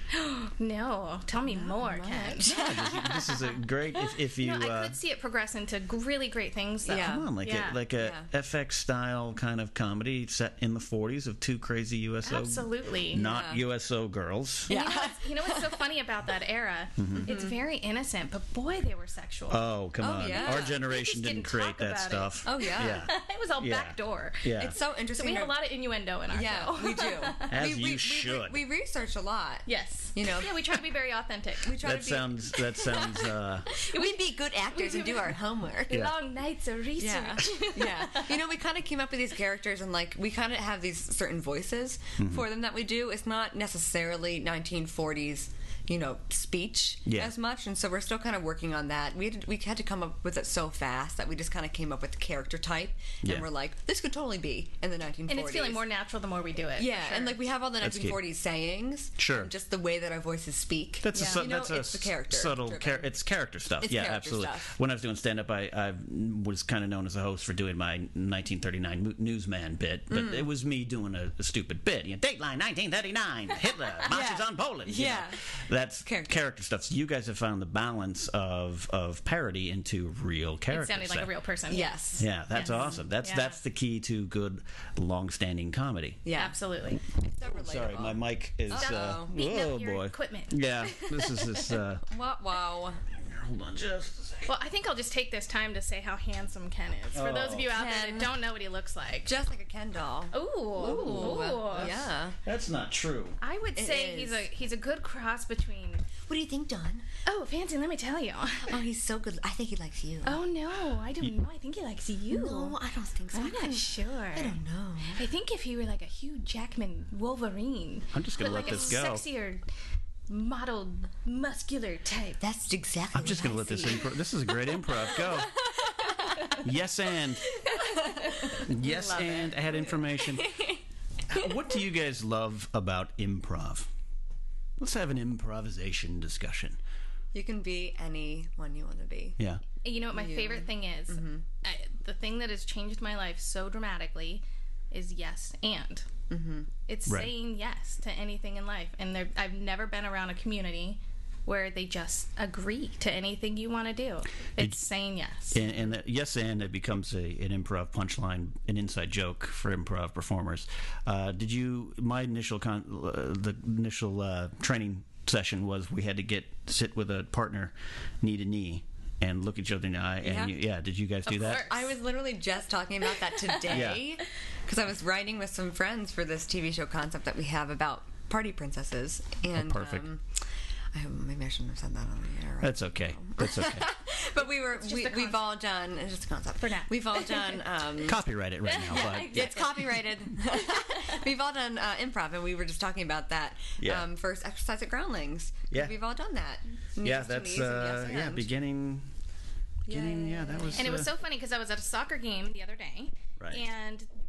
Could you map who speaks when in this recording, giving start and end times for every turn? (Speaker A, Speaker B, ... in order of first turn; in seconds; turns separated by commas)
Speaker A: 0.1-3.4, Speaker B: 1.4-3.1, Speaker C: 2.4-5.0, Speaker A: 4.3-7.8, Speaker B: 6.9-7.3, Speaker C: 7.0-14.7, Speaker B: 8.0-8.3, Speaker A: 12.2-13.2, Speaker B: 13.1-13.7, Speaker B: 14.7-15.8, Speaker A: 14.7-19.6, Speaker C: 17.0-17.4, Speaker B: 17.1-17.6, Speaker C: 19.5-24.8, Speaker B: 20.0-20.8, Speaker A: 20.3-27.5, Speaker B: 22.4-23.1, Speaker B: 24.6-25.6, Speaker B: 26.3-30.8, Speaker C: 27.5-28.6, Speaker A: 29.7-31.8, Speaker B: 31.6-36.1, Speaker C: 31.8-33.7, Speaker A: 33.7-35.3, Speaker A: 35.9-38.4, Speaker B: 37.0-55.8, Speaker C: 42.2-42.5, Speaker C: 47.1-47.3, Speaker A: 55.3-57.4, Speaker B: 56.8-63.1, Speaker C: 57.8-58.2, Speaker C: 59.2-59.5, Speaker C: 61.0-81.3, Speaker B: 63.8-64.7, Speaker B: 70.1-70.5, Speaker B: 74.1-75.4, Speaker B: 76.0-76.4, Speaker A: 80.7-83.6, Speaker B: 81.7-83.0, Speaker C: 82.2-86.2, Speaker B: 86.2-86.6, Speaker A: 86.3-87.0, Speaker B: 87.2-89.3, Speaker C: 87.6-92.1, Speaker A: 88.8-91.7, Speaker B: 92.1-93.0, Speaker C: 93.2-94.5, Speaker A: 94.5-99.3, Speaker C: 97.1-97.8, Speaker B: 97.7-98.4, Speaker B: 99.2-102.4, Speaker A: 100.3-102.0, Speaker C: 100.9-103.4, Speaker A: 103.4-106.0, Speaker B: 103.8-104.5, Speaker B: 106.2-107.1, Speaker A: 107.2-108.8, Speaker B: 108.6-110.4, Speaker A: 110.2-112.8, Speaker B: 112.3-115.2, Speaker A: 113.3-114.5, Speaker A: 115.1-119.6, Speaker C: 118.1-119.2, Speaker B: 118.5-118.9, Speaker A: 120.3-122.4, Speaker B: 122.4-124.2, Speaker C: 123.1-125.6, Speaker B: 125.0-126.6, Speaker C: 126.5-127.6, Speaker B: 127.5-128.6, Speaker A: 127.7-129.6, Speaker C: 128.6-130.6, Speaker B: 130.2-130.8, Speaker C: 131.3-133.9, Speaker C: 134.8-136.8, Speaker B: 137.3-139.4, Speaker A: 139.8-146.1, Speaker B: 140.1-141.4, Speaker B: 146.3-146.7, Speaker A: 146.9-155.7, Speaker C: 147.1-147.3, Speaker C: 155.5-171.7, Speaker B: 170.2-170.6, Speaker A: 171.3-171.9, Speaker B: 171.4-180.4, Speaker C: 173.7-174.1, Speaker C: 179.5-180.1, Speaker B: 180.9-188.2, Speaker C: 182.6-183.9, Speaker A: 184.6-185.6, Speaker A: 186.6-187.6, Speaker C: 188.0-189.8, Speaker A: 188.7-189.9, Speaker B: 188.9-198.5, Speaker C: 193.8-194.1, Speaker C: 197.0-199.1, Speaker B: 199.9-201.0, Speaker C: 199.9-201.1, Speaker A: 200.8-204.1